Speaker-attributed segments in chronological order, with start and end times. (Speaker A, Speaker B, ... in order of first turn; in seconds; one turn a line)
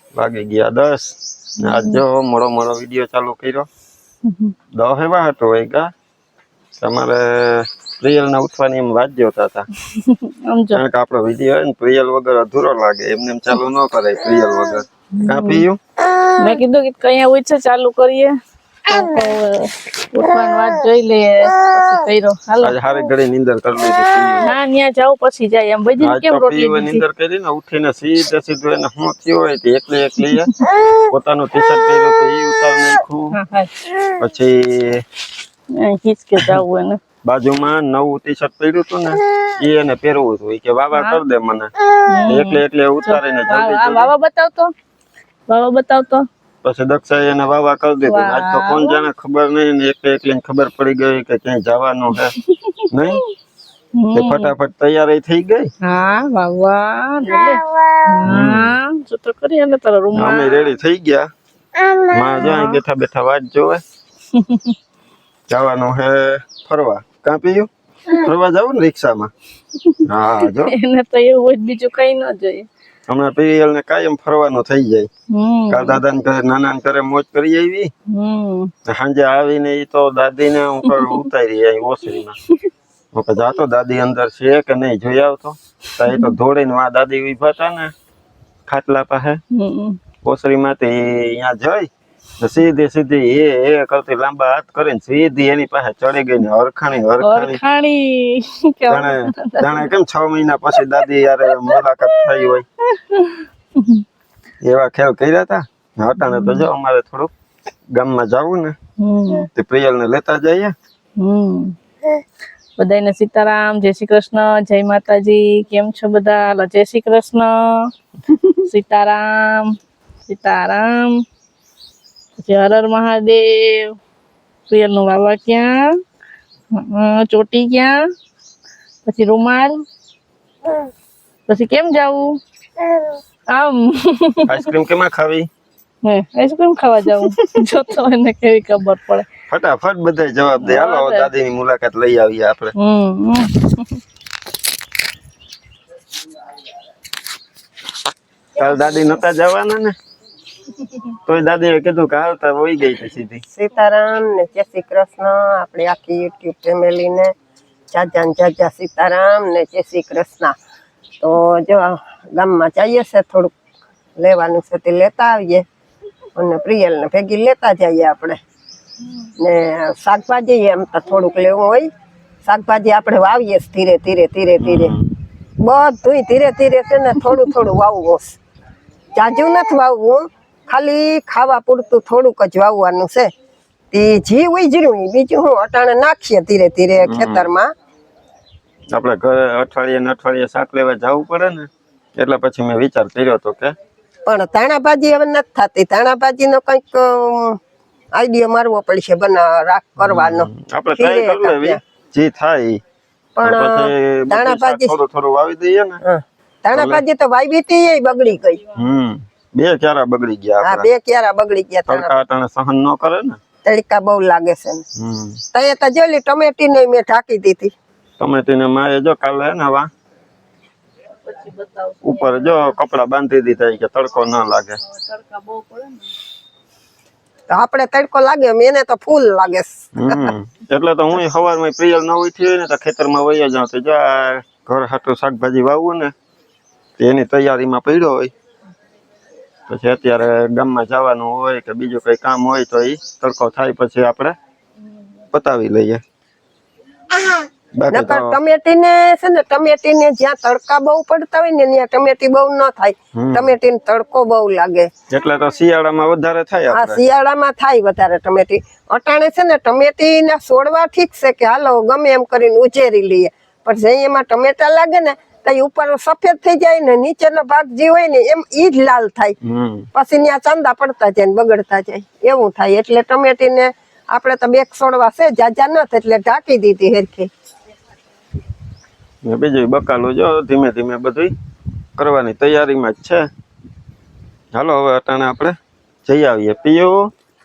Speaker A: 0.1-3.7
Speaker B: 1.6-2.0
Speaker B: 4.3-4.5
Speaker A: 4.8-5.9
Speaker A: 6.8-9.7
Speaker B: 9.9-10.8
Speaker A: 10.7-15.8
Speaker B: 15.2-15.7
Speaker B: 16.3-18.4
Speaker B: 18.9-22.8
Speaker A: 22.6-24.5
Speaker B: 24.4-27.0
Speaker A: 26.0-33.4
Speaker B: 30.3-30.6
Speaker B: 33.3-33.8
Speaker A: 34.0-35.0
Speaker B: 35.8-37.0
Speaker A: 37.2-41.7
Speaker B: 40.9-41.2
Speaker B: 42.1-44.7
Speaker A: 42.3-44.1
Speaker B: 45.5-46.3
Speaker A: 46.6-52.4
Speaker B: 48.1-49.0
Speaker B: 52.2-53.2
Speaker A: 52.9-53.2
Speaker B: 54.0-54.5
Speaker A: 54.1-55.7
Speaker B: 55.8-60.7
Speaker A: 58.2-58.7
Speaker A: 60.1-61.3
Speaker A: 62.1-63.8
Speaker B: 62.3-62.8
Speaker B: 64.3-64.8
Speaker A: 65.5-69.3
Speaker B: 69.8-72.7
Speaker A: 70.0-70.7
Speaker A: 73.1-75.1
Speaker B: 75.3-76.0
Speaker A: 75.7-77.9
Speaker B: 78.1-78.7
Speaker A: 78.9-82.4
Speaker B: 80.9-81.2
Speaker A: 83.1-87.9
Speaker B: 86.1-86.3
Speaker A: 88.7-89.4
Speaker B: 89.5-90.0
Speaker A: 90.2-97.6
Speaker B: 97.2-99.9
Speaker A: 98.9-102.7
Speaker B: 100.8-104.0
Speaker A: 104.6-107.3
Speaker B: 106.2-106.7
Speaker A: 107.9-108.8
Speaker B: 109.0-109.5
Speaker A: 109.5-110.7
Speaker B: 111.2-111.8
Speaker B: 112.8-117.9
Speaker B: 118.6-119.8
Speaker B: 120.3-121.2
Speaker B: 122.4-123.9
Speaker B: 124.7-125.8
Speaker B: 126.7-128.0
Speaker B: 129.1-129.8
Speaker B: 131.5-132.4
Speaker B: 133.5-134.6
Speaker A: 134.5-135.5
Speaker B: 136.0-139.3
Speaker A: 139.5-142.7
Speaker B: 140.6-141.3
Speaker B: 142.8-144.0
Speaker A: 148.6-149.9
Speaker A: 151.3-153.4
Speaker C: 153.5-157.3
Speaker C: 157.9-160.6
Speaker C: 161.2-163.5
Speaker C: 164.2-165.7
Speaker C: 166.4-168.4
Speaker B: 169.1-169.3
Speaker C: 169.4-171.9
Speaker C: 172.4-174.9
Speaker A: 174.6-175.2
Speaker C: 175.6-178.4
Speaker C: 179.2-183.3
Speaker C: 183.9-187.7
Speaker A: 187.0-187.5
Speaker A: 188.9-193.7
Speaker C: 194.3-197.6
Speaker C: 198.2-201.8
Speaker A: 200.0-202.8
Speaker C: 203.4-205.0
Speaker A: 203.4-206.0
Speaker C: 206.0-208.6
Speaker A: 206.7-207.0
Speaker A: 208.7-210.9
Speaker C: 210.6-212.2
Speaker A: 211.9-213.4
Speaker C: 213.7-214.8
Speaker A: 215.0-215.4
Speaker C: 215.5-217.7
Speaker A: 218.2-219.9
Speaker B: 221.2-222.8
Speaker A: 222.0-224.8
Speaker B: 224.8-226.1
Speaker C: 227.5-230.3
Speaker A: 230.0-236.1
Speaker A: 237.0-238.3
Speaker A: 239.7-244.3
Speaker A: 245.3-246.0
Speaker A: 247.8-248.4
Speaker C: 247.9-254.9
Speaker A: 253.2-253.5
Speaker A: 255.1-257.0
Speaker C: 256.7-269.4
Speaker A: 269.4-269.9
Speaker C: 269.9-277.3
Speaker A: 279.2-281.3
Speaker A: 282.0-283.2
Speaker A: 284.5-285.6
Speaker A: 286.1-287.0